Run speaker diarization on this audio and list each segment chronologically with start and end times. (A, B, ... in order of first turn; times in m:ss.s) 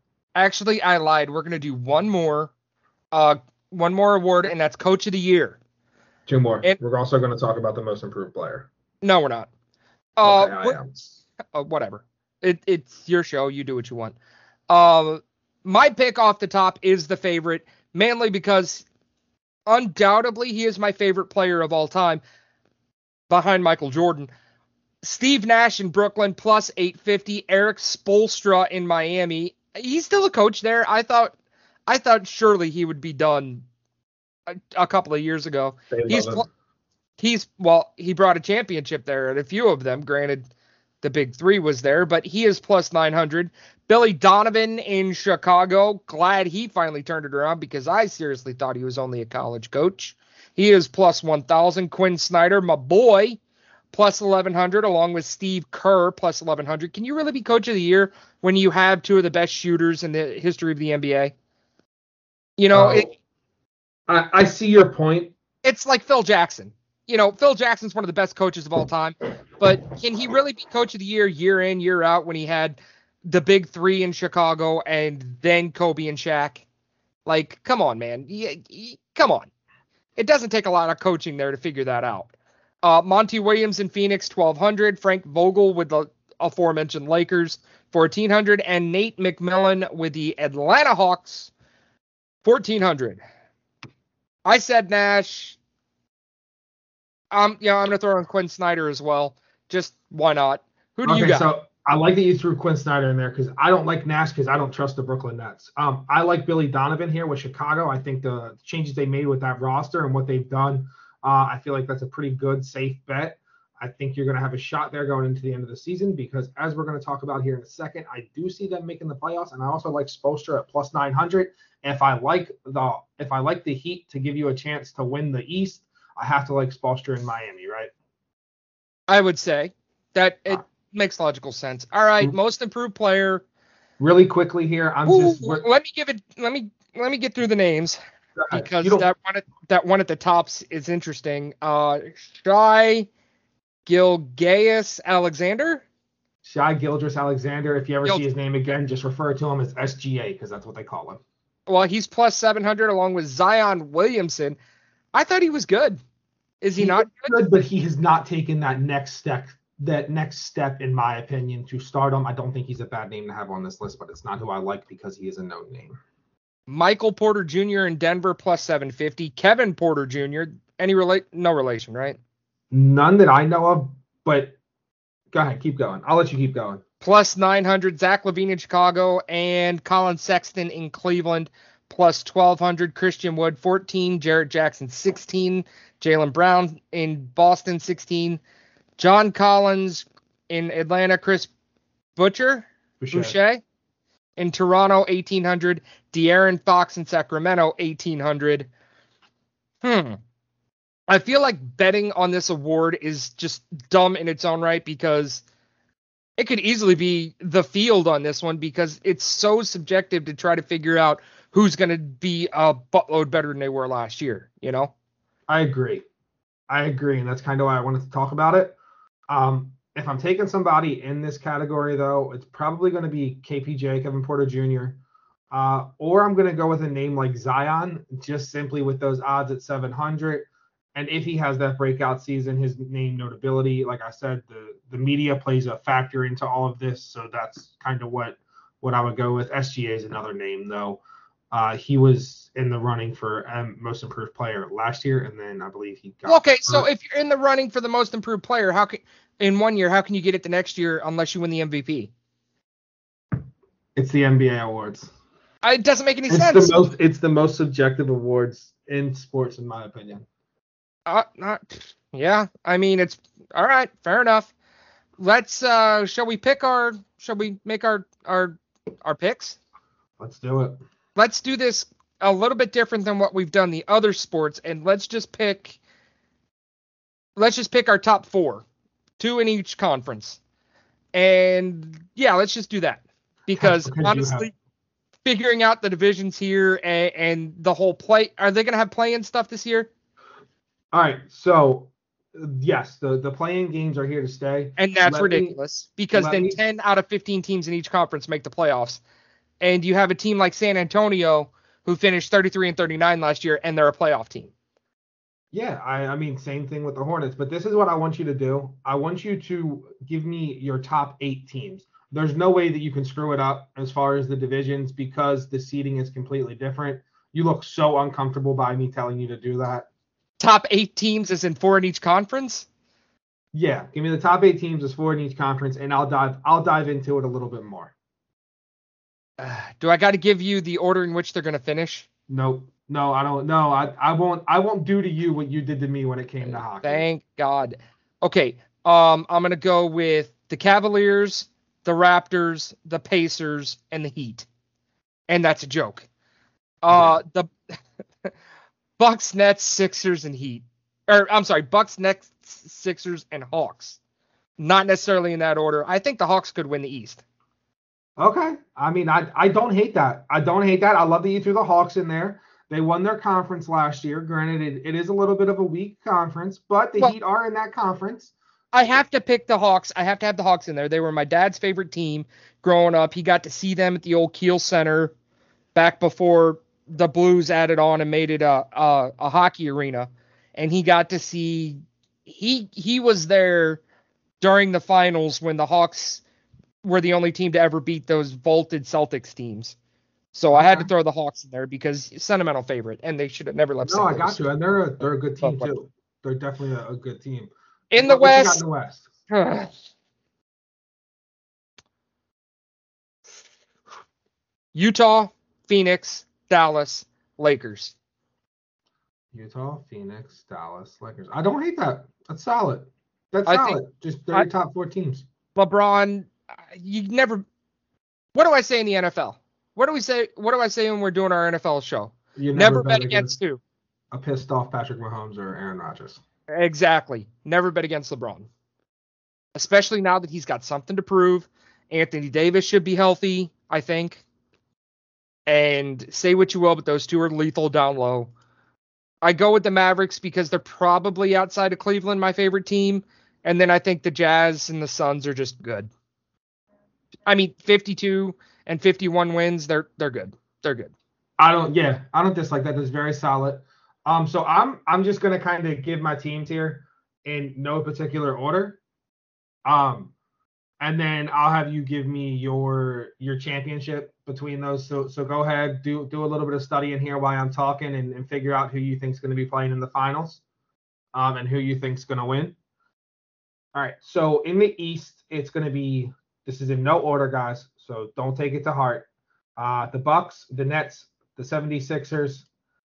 0:00.4-0:02.5 A
0:03.1-0:05.6 A
0:06.3-0:08.7 B
0:09.0-0:09.5 A
0:10.2-0:10.8 A
0:10.2-0:11.1 B
0:11.5-0:14.2 A
0:14.7-0:18.9 A
0:19.7-0:22.2 A
0:23.3-0:24.3 A
0:25.0-0:31.3 A
0:31.9-0:33.6 A
0:34.7-0:36.5 A
0:35.9-0:36.5 B
0:37.2-0:40.5 A
0:41.0-0:53.4 A
0:53.9-1:01.3 A
1:02.6-1:03.1 A
1:02.7-1:03.1 B
1:04.1-1:05.4 B
1:05.6-1:12.8 A
1:13.3-1:16.6 A
1:17.3-1:19.5 A
1:20.2-1:31.5 A
1:32.4-1:33.2 A
1:34.4-1:35.6 A
1:37.3-1:41.5 A
1:41.0-2:07.9 B
2:09.1-2:13.4 A
2:14.0-2:15.7 B
2:15.1-2:18.0 A
2:18.4-2:19.1 B
2:18.5-2:23.1 A
2:23.9-2:25.8 A
2:26.4-2:31.2 B
2:31.7-2:34.6 A
2:35.1-2:36.0 A
2:36.6-2:37.3 A
2:36.8-2:46.0 B
2:46.7-2:52.2 A
2:52.7-2:54.6 B
2:55.3-2:56.8 B
2:57.0-3:08.4 A
3:09.0-3:11.5 A
3:12.2-3:13.6 A
3:13.0-3:13.4 B
3:14.4-3:18.7 A
3:19.8-3:20.2 A
3:21.1-3:25.4 A
3:26.4-3:34.9 A
3:35.5-3:36.0 B
3:36.7-3:38.8 B
3:39.3-3:45.0 B
3:45.5-4:01.0 B
4:01.5-4:06.9 B
4:06.3-4:12.1 A
4:14.0-4:15.1 B
4:15.6-4:16.8 A
4:16.3-4:20.3 B
4:21.1-4:24.5 A
4:25.2-4:29.6 A
4:30.2-4:30.8 B
4:31.2-4:35.8 A
4:37.4-4:38.7 A
4:39.2-4:40.4 A
4:41.1-4:44.5 A
4:43.6-4:44.5 B
4:45.2-4:49.9 A
4:50.9-4:55.6 B
4:54.8-4:59.0 A
4:56.1-4:56.6 B
4:59.6-5:04.5 A
5:05.5-5:19.9 B
5:20.4-5:22.7 A
5:23.5-5:27.9 B
5:29.4-5:32.1 A
5:32.3-5:37.0 B
5:36.5-5:44.5 A
5:45.3-5:46.1 A
5:46.8-5:47.5 A
5:46.9-5:47.2 B
5:49.0-5:54.0 A
5:54.6-5:57.2 A
5:58.2-6:08.3 B
6:08.7-6:15.1 A
6:15.8-6:23.8 A
6:24.4-6:26.2 A
6:26.8-6:29.8 A
6:30.3-6:34.4 A
6:30.5-6:30.9 B
6:33.9-6:39.1 B
6:35.4-6:35.7 A
6:37.9-6:38.6 A
6:39.3-6:39.7 A
6:44.7-6:47.9 A
6:49.3-6:55.3 B
6:53.5-6:53.8 A
6:55.6-6:57.4 A
6:58.4-7:03.6 A
7:02.4-7:03.4 B
7:04.1-7:06.2 B
7:06.5-7:08.5 A
7:09.6-7:14.2 A
7:15.5-7:18.3 A
7:19.2-7:25.9 A
7:27.3-7:30.9 A
7:31.4-7:38.8 B
7:39.6-7:40.1 B
7:40.8-7:50.4 B
7:51.1-7:52.6 B
7:53.7-8:02.5 B